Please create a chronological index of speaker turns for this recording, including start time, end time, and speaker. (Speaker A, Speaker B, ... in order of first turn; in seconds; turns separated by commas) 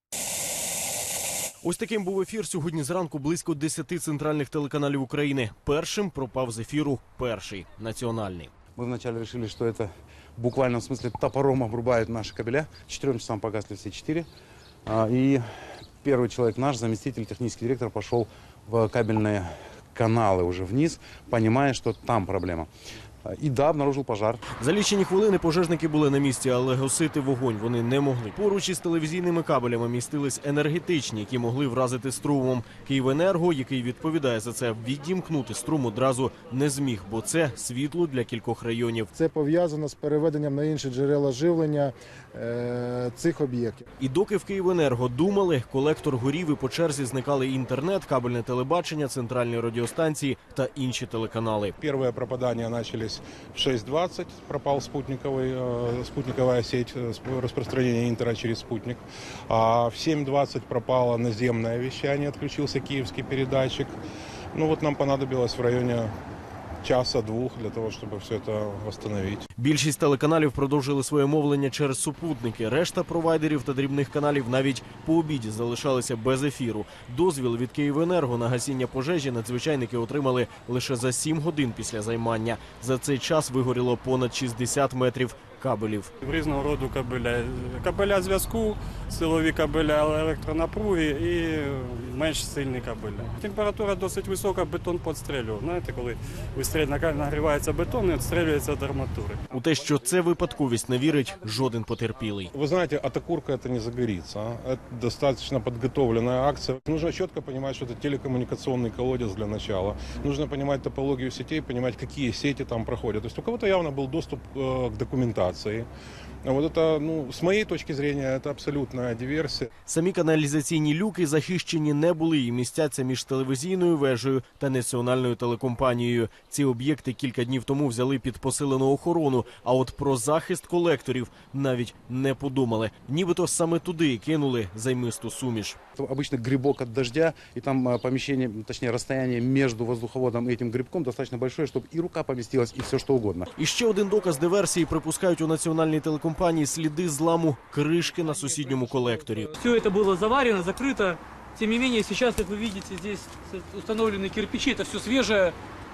Speaker A: 1.6-8.5, Speaker B: 8.8-14.3, Speaker B: 14.9-15.4, Speaker B: 16.0-22.7, Speaker B: 23.3-24.4, Speaker A: 24.6-39.1, Speaker C: 39.1-43.9, Speaker A: 44.0-51.8, Speaker D: 51.8-63.9, Speaker D: 64.5-66.1, Speaker D: 66.8-69.5, Speaker A: 69.6-86.1, Speaker E: 86.2-99.4, Speaker A: 99.5-102.5, Speaker D: 102.5-115.9, Speaker D: 116.5-119.7, Speaker A: 119.9-135.8, Speaker B: 136.0-143.5, Speaker A: 143.6-149.5, Speaker F: 149.5-155.6